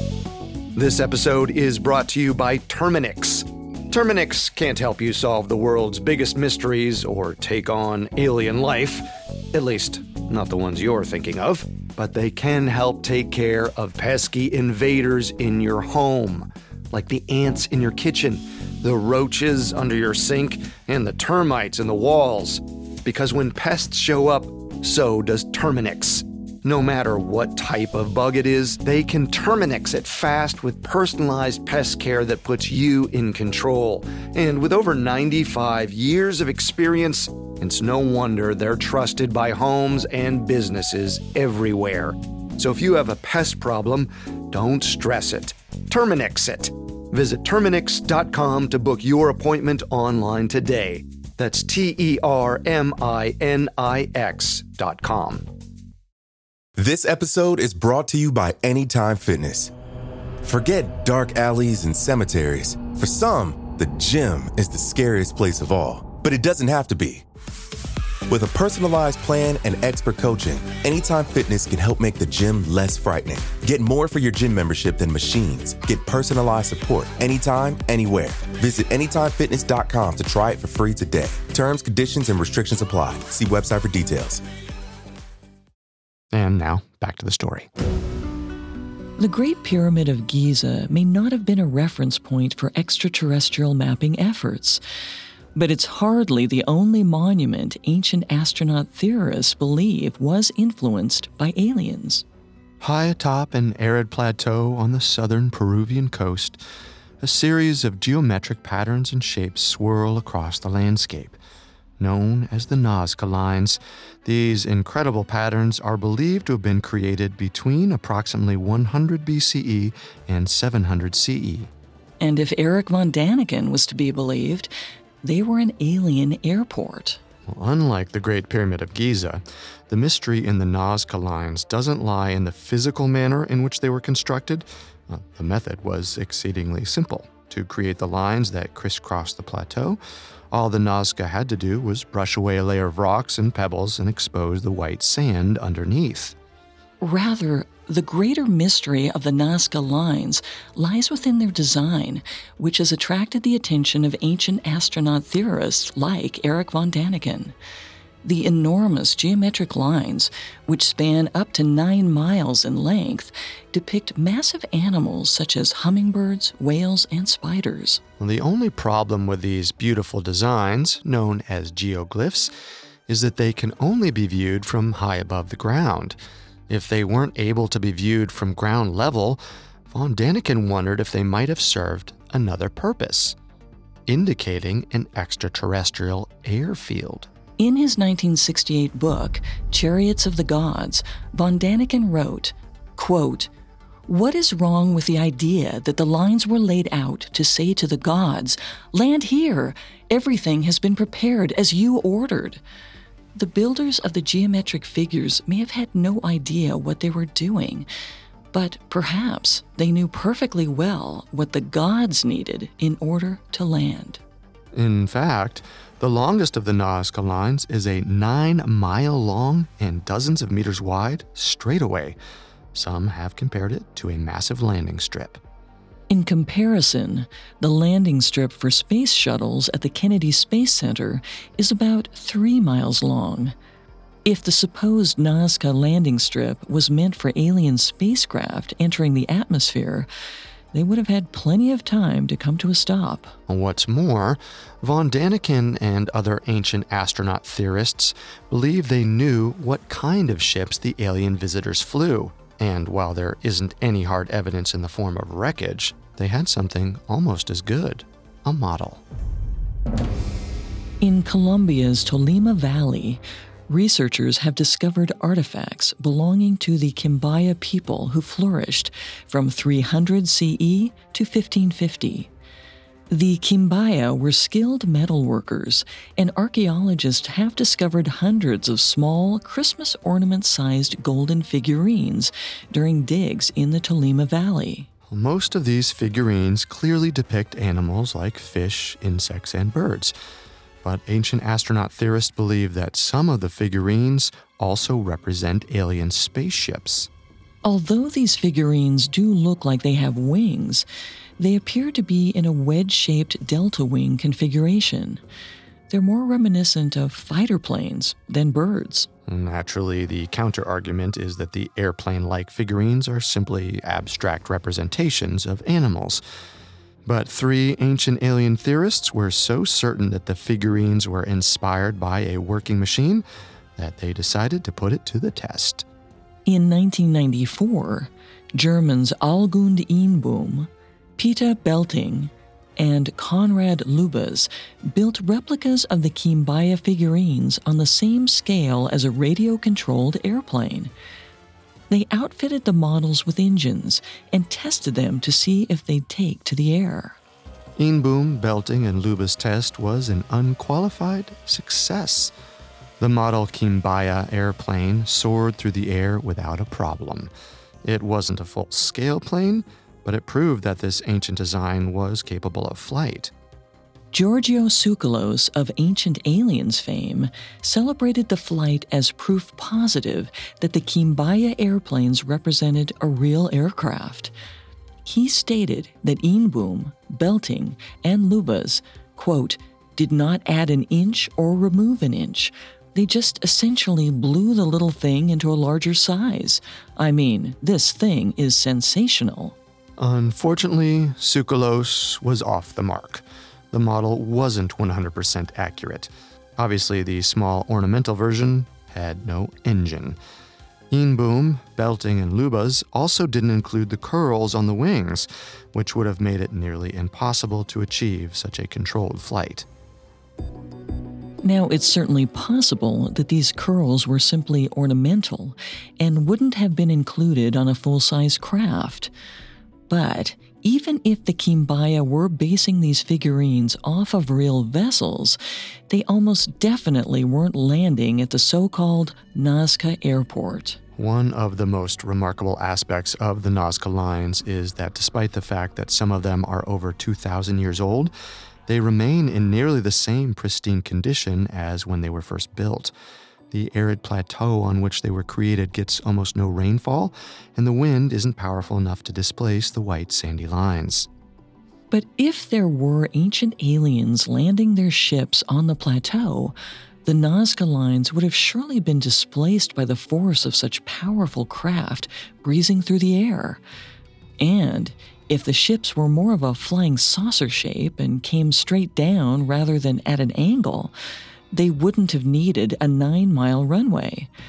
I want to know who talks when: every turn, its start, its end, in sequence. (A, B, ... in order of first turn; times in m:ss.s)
0:00.8-0:55.5 A
0:56.8-0:59.7 B
1:00.4-1:07.2 B
1:08.3-1:24.4 B
1:26.3-1:27.7 A
1:29.2-1:34.8 C
1:35.6-1:42.2 C
1:42.8-1:46.6 A
1:47.2-1:51.4 A
1:52.0-2:01.7 A
2:02.2-2:04.7 C
2:05.2-2:07.2 C
2:07.5-2:20.0 A
2:20.5-2:26.4 A
2:27.0-2:37.6 C
2:38.2-2:48.0 C
2:48.2-2:52.5 A
2:53.1-2:56.2 A
2:56.7-3:03.4 A
3:04.1-3:07.3 A
3:07.6-3:13.5 C
3:14.1-3:22.6 C
3:23.4-3:27.9 C
3:28.5-3:34.2 C
3:34.7-3:42.2 A
3:42.7-3:45.4 A
3:46.1-3:53.5 C
3:54.2-4:00.1 C
4:00.7-4:03.4 C
4:03.5-4:19.0 A
4:21.0-4:32.3 C
4:33.1-4:44.9 C
4:45.1-4:50.2 A
4:50.8-4:57.1 A
4:57.6-5:00.8 C
5:01.4-5:05.2 C
5:05.9-5:09.1 C
5:09.3-5:16.2 A
5:17.0-5:23.2 A
5:23.8-5:25.8 A
5:26.5-5:40.9 C
5:41.9-5:47.2 C
5:47.8-5:52.3 A
5:53.0-5:57.3 A
5:57.8-6:03.3 A
6:04.1-6:14.3 C
6:15.0-6:29.6 C
6:30.0-6:40.2 A
6:40.9-6:49.7 A
6:51.4-6:59.1 C
6:59.9-7:05.4 C
7:05.9-7:10.8 C
7:11.0-7:18.1 A
7:18.7-7:22.9 A
7:23.5-7:31.1 A
7:31.9-7:43.6 C
7:44.4-7:50.9 C
7:51.5-7:54.3 C